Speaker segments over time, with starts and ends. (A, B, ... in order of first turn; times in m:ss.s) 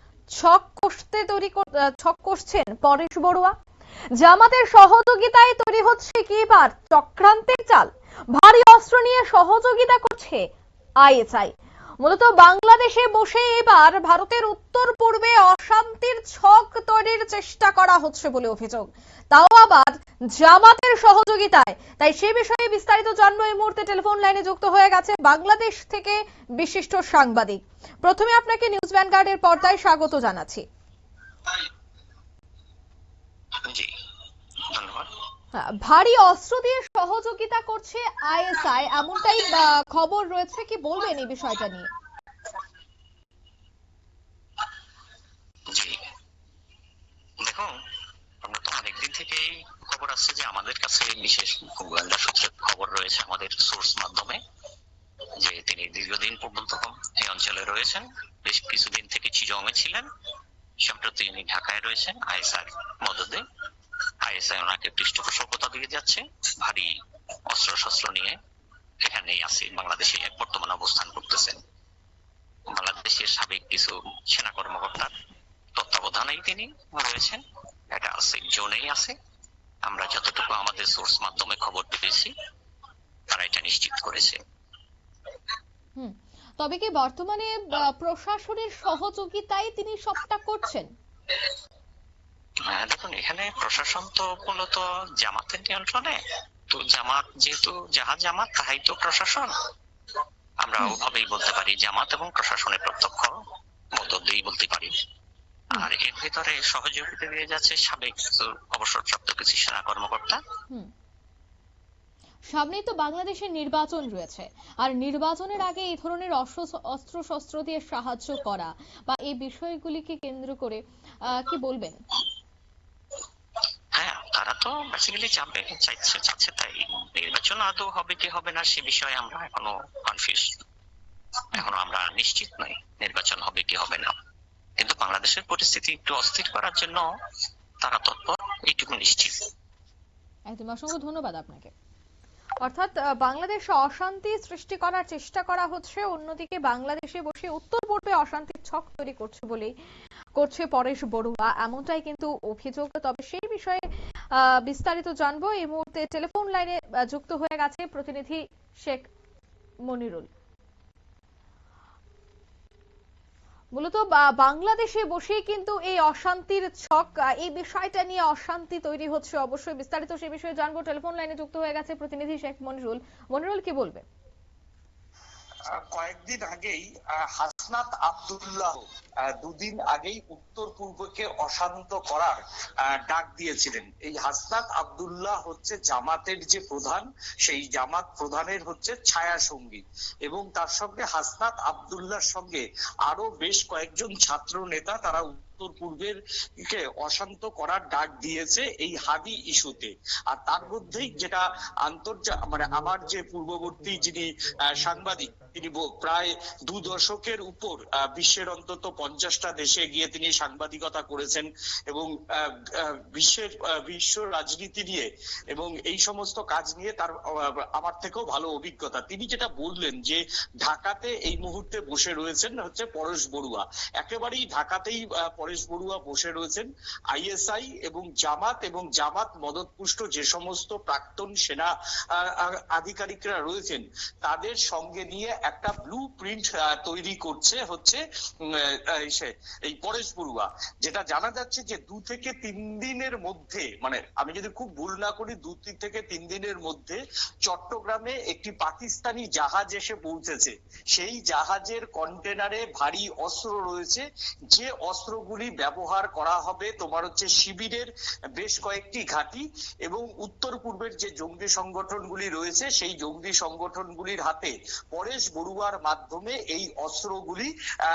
0:00.4-0:03.5 A
0:04.2-0:10.4 A
0:11.0-0:30.6 A
0:34.7-0:35.1 B
0:35.5-0:41.9 A
0:45.7-0:46.0 B
0:47.4-0:47.7 B
0:48.4-0:54.4 B
0:55.4-1:00.1 B
1:00.8-1:03.4 B
1:04.2-1:06.9 B
1:07.5-1:08.4 B
1:09.0-1:11.6 B
1:12.7-1:15.1 B
1:15.8-1:17.4 B
1:17.9-1:19.2 B
1:19.9-1:22.3 B
1:23.3-1:24.4 B
1:26.0-1:30.9 A
1:32.7-1:36.2 B
1:36.7-1:39.5 B
1:40.6-1:43.4 B
1:44.0-1:44.9 B
1:45.7-1:50.4 B
1:52.5-2:02.0 A
2:04.0-2:10.6 B
2:11.5-2:14.1 B
2:14.8-2:17.0 B
2:17.8-2:19.5 B
2:20.5-2:21.7 A
2:22.6-2:29.7 A
2:30.4-2:33.8 A
2:34.4-2:39.1 A
2:39.9-2:40.3 A
2:43.7-2:54.0 A
2:55.8-3:16.2 C
3:16.7-3:37.2 C
3:37.7-4:27.5 C